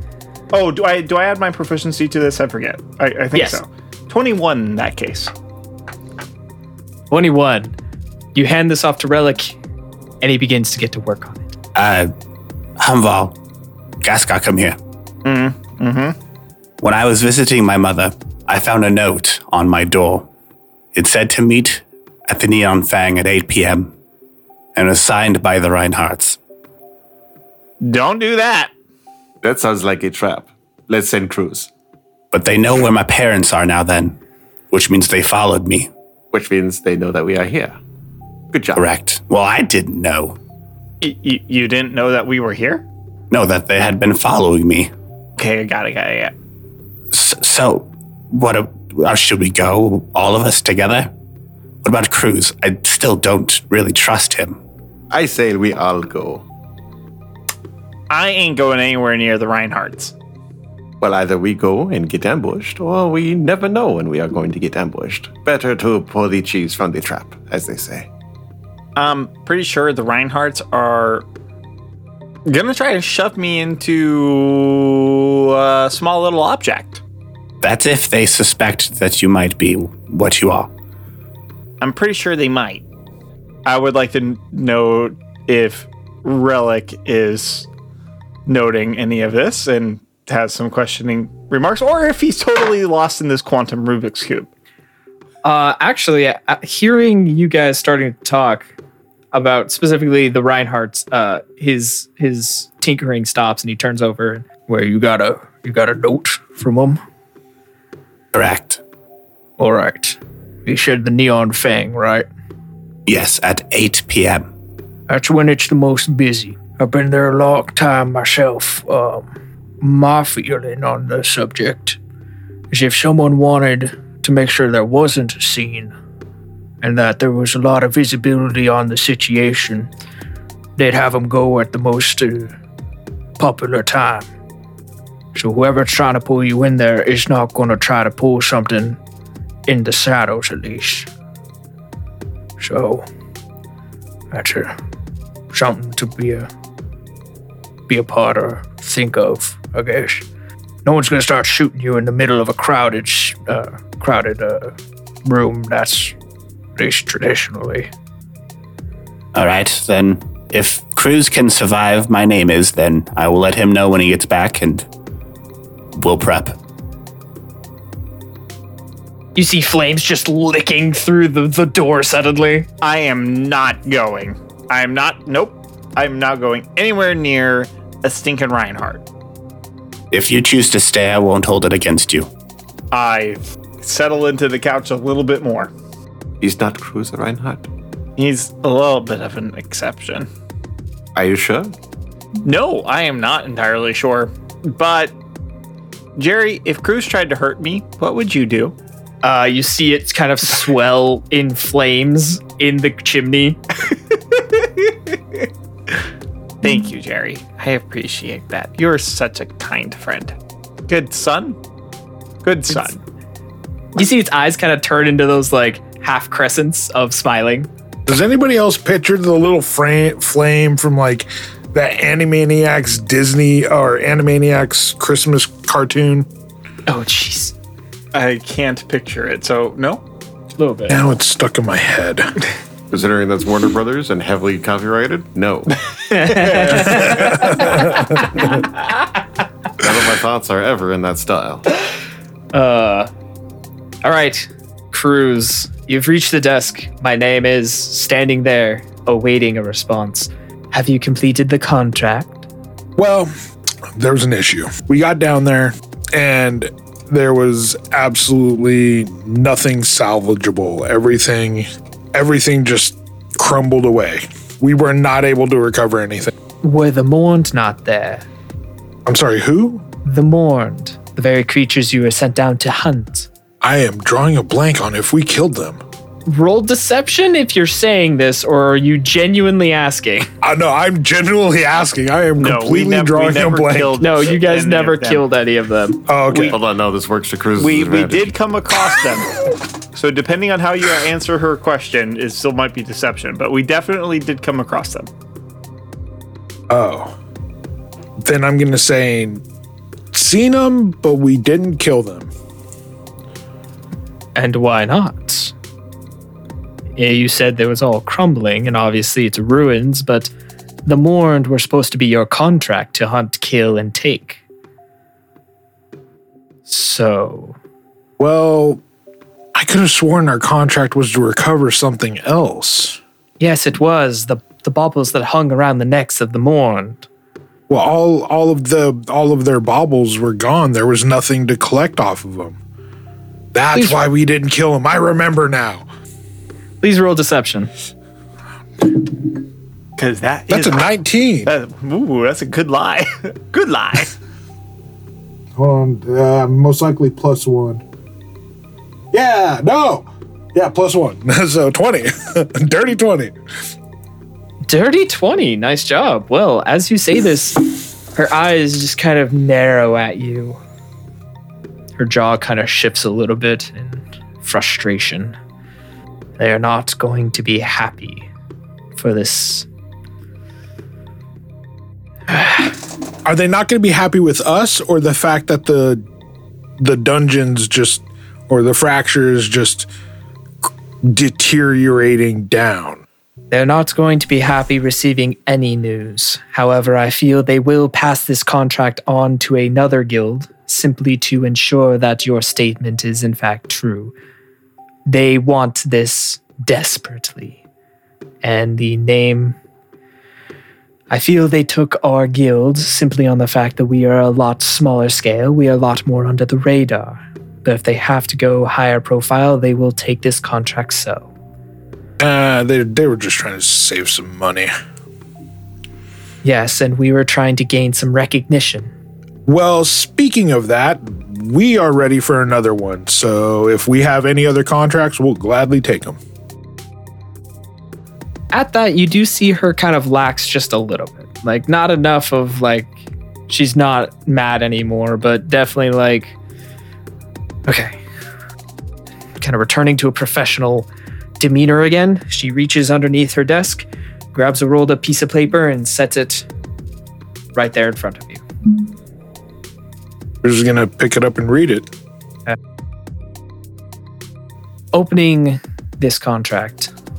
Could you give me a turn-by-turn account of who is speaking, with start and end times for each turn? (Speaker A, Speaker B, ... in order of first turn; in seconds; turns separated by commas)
Speaker A: 0.5-5.3, Speaker B: 3.3-3.6, Speaker B: 7.1-7.7, Speaker B: 8.3-9.6, Speaker B: 10.2-11.5, Speaker C: 11.7-12.1, Speaker C: 12.8-13.3, Speaker C: 14.0-14.8, Speaker A: 15.2-16.1, Speaker C: 16.8-20.3, Speaker C: 20.9-23.9, Speaker C: 24.7-26.4, Speaker A: 27.8-28.7, Speaker D: 29.4-31.7, Speaker C: 32.3-34.2, Speaker C: 34.7-35.9, Speaker D: 36.3-37.8, Speaker D: 38.5-38.8, Speaker C: 38.8-40.4, Speaker A: 41.0-42.8, Speaker C: 43.3-44.9, Speaker A: 45.4-46.3, Speaker C: 47.1-51.1, Speaker C: 51.8-54.6, Speaker D: 55.1-56.5, Speaker A: 58.1-60.1, Speaker D: 61.0-68.1, Speaker A: 69.0-71.2, Speaker A: 72.5-77.0, Speaker C: 77.6-80.7, Speaker A: 81.8-82.8, Speaker A: 83.6-87.7, Speaker A: 88.5-94.5, Speaker B: 95.4-98.7, Speaker B: 99.3-104.7, Speaker E: 104.6-107.0, Speaker C: 108.3-108.8, Speaker E: 109.6-112.3, Speaker C: 113.1-114.5, Speaker E: 115.1-122.0, Speaker E: 122.7-125.9, Speaker E: 126.8-129.9, Speaker E: 130.8-132.5, Speaker E: 133.4-134.3, Speaker E: 135.3-139.0, Speaker E: 139.7-141.1, Speaker E: 142.6-143.1, Speaker E: 144.3-144.7, Speaker E: 145.5-146.5, Speaker E: 147.9-150.2, Speaker E: 150.8-156.1, Speaker E: 156.8-157.9, Speaker C: 159.3-164.9, Speaker C: 165.9-166.6, Speaker B: 169.3-172.7, Speaker A: 172.8-179.0, Speaker C: 180.1-182.3, Speaker A: 182.9-185.7, Speaker D: 186.4-187.7, Speaker A: 188.2-190.3, Speaker D: 191.1-191.7, Speaker A: 192.4-195.1, Speaker A: 196.2-198.7, Speaker B: 199.2-203.6, Speaker A: 204.5-205.1, Speaker A: 206.6-210.3, Speaker A: 210.9-211.6, Speaker A: 212.4-213.0, Speaker B: 213.9-217.7, Speaker F: 218.1-226.3, Speaker B: 226.9-227.5, Speaker A: 228.1-230.0, Speaker B: 230.6-231.0, Speaker F: 230.9-232.3, Speaker D: 232.9-238.6, Speaker B: 236.1-237.8, Speaker F: 237.3-238.1, Speaker D: 239.8-241.6, Speaker B: 242.5-243.1, Speaker B: 244.0-252.4, Speaker F: 252.9-253.3, Speaker F: 253.9-266.3, Speaker B: 266.6-268.2, Speaker F: 269.1-269.9, Speaker B: 270.0-273.3, Speaker F: 273.6-275.8, Speaker B: 276.3-280.3, Speaker F: 280.4-284.0, Speaker A: 282.4-285.2, Speaker B: 284.0-286.1, Speaker F: 286.1-286.6, Speaker A: 286.3-286.6, Speaker D: 286.5-288.3, Speaker A: 287.6-295.1, Speaker F: 296.7-297.1, Speaker F: 298.2-299.4, Speaker F: 300.1-302.3, Speaker B: 304.3-305.5, Speaker B: 307.0-310.3, Speaker B: 310.9-314.4, Speaker B: 316.7-317.6, Speaker F: 318.2-318.8, Speaker F: 319.5-323.0, Speaker B: 323.4-327.0, Speaker F: 327.7-332.6, Speaker F: 333.5-335.9, Speaker B: 333.7-334.0, Speaker B: 336.8-337.7, Speaker A: 340.0-340.9, Speaker F: 340.5-341.5, Speaker A: 341.4-344.1, Speaker F: 345.5-347.8, Speaker F: 349.1-353.4, Speaker B: 354.6-357.6, Speaker B: 358.1-360.6, Speaker B: 362.0-365.4, Speaker B: 366.4-368.3, Speaker B: 369.0-369.6, Speaker B: 372.3-372.7, Speaker F: 373.2-376.0, Speaker F: 376.8-379.9, Speaker F: 380.6-383.0, Speaker B: 383.5-394.1, Speaker B: 395.1-397.6, Speaker B: 398.4-399.6, Speaker B: 401.1-411.3, Speaker F: 412.2-414.7, Speaker B: 416.4-418.9, Speaker F: 419.4-426.2, Speaker B: 428.5-432.9, Speaker B: 433.5-436.4, Speaker B: 437.7-438.0, Speaker B: 439.4-440.9, Speaker B: 441.4-446.5, Speaker B: 447.5-448.4, Speaker F: 450.4-451.9, Speaker B: 454.9-456.9